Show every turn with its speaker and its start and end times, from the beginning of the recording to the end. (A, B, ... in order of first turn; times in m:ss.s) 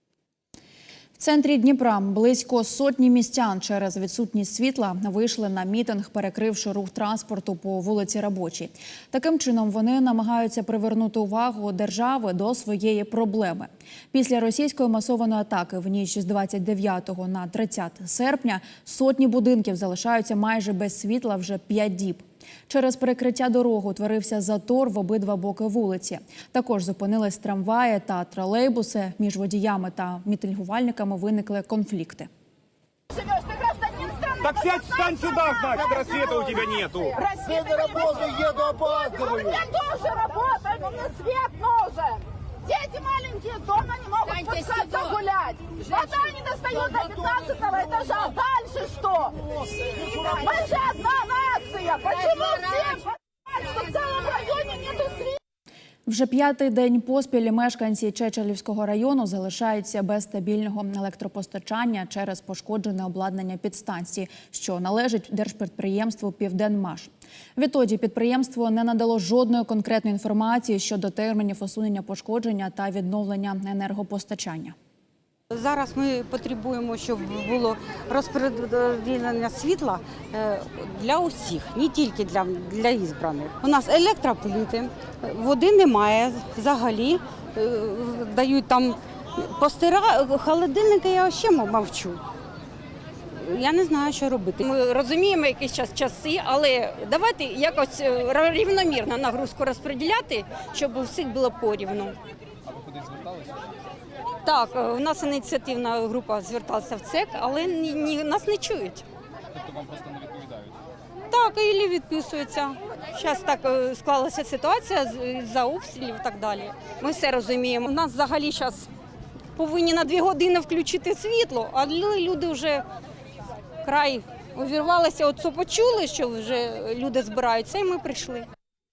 0:01.2-0:32.3 A
0:33.7-0:35.9 B
0:34.4-0:37.1 C
0:37.3-0:37.6 B
0:39.2-0:42.2 B
0:42.8-0:48.5 B
0:50.0-0:53.0 B
0:53.9-0:55.2 B
0:56.1-1:14.8 A
1:15.5-1:32.2 D
1:33.4-1:34.6 D
1:34.6-1:42.2 E
1:42.7-1:43.6 F
1:44.4-1:49.0 E
1:49.6-1:50.8 F
1:51.3-1:58.9 E
1:59.6-2:02.8 E
2:03.8-2:08.5 E